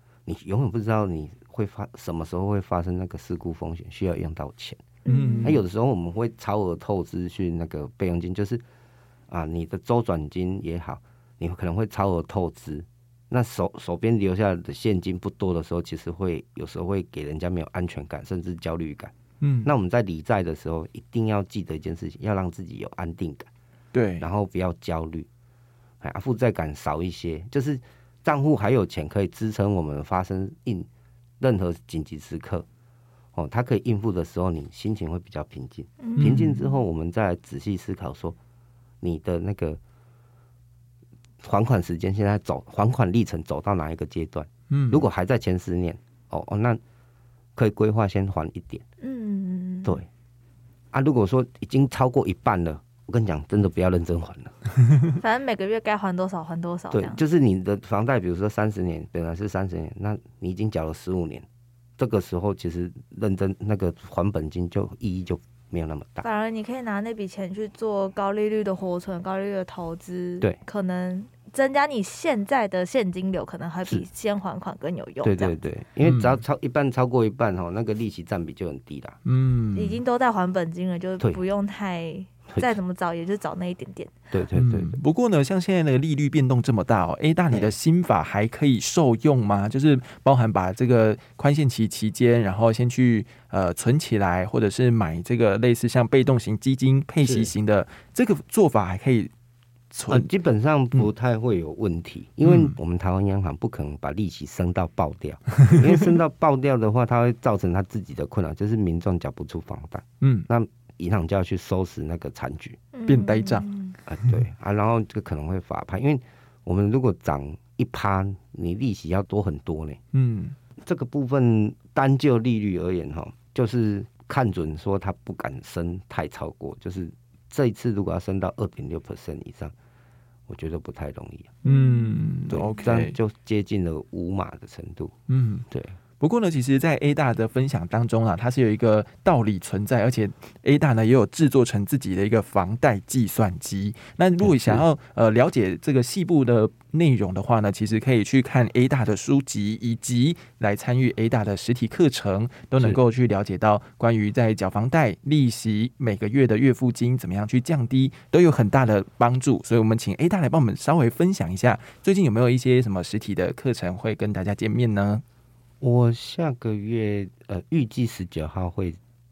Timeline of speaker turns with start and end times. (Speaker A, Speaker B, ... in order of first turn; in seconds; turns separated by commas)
Speaker A: 0.3-4.8, Speaker B: 5.1-5.5, Speaker C: 5.1-5.6, Speaker A: 5.4-8.6, Speaker A: 9.3-19.1, Speaker C: 19.4-19.7, Speaker A: 19.6-23.5, Speaker C: 23.9-24.3, Speaker A: 24.2-25.3, Speaker A: 26.0-30.9, Speaker A: 31.4-32.7, Speaker A: 33.4-38.4, Speaker B: 36.0-36.8, Speaker C: 36.2-36.6, Speaker A: 39.0-39.8, Speaker A: 41.4-46.8, Speaker C: 44.7-45.0, Speaker A: 47.6-48.8, Speaker B: 49.0-50.0, Speaker A: 50.9-54.5, Speaker B: 55.0-57.2, Speaker A: 56.9-61.5, Speaker A: 62.0-66.3, Speaker B: 66.2-75.6, Speaker A: 75.2-79.2, Speaker C: 76.0-76.4, Speaker C: 79.2-80.0, Speaker B: 79.7-84.3, Speaker A: 82.5-82.8, Speaker A: 84.3-85.0, Speaker C: 84.5-99.3, Speaker A: 97.2-97.5, Speaker C: 99.9-100.3, Speaker A: 100.1-112.8, Speaker C: 102.4-102.8, Speaker B: 112.9-114.0, Speaker C: 113.1-113.7, Speaker A: 114.0-120.0, Speaker C: 120.1-120.6, Speaker A: 120.8-129.7, Speaker A: 130.5-131.6, Speaker B: 131.6-132.2, Speaker C: 131.7-133.2, Speaker A: 132.5-135.1, Speaker C: 135.3-135.7, Speaker A: 135.7-136.0, Speaker C: 136.2-165.2, Speaker A: 144.4-144.8, Speaker A: 165.8-169.0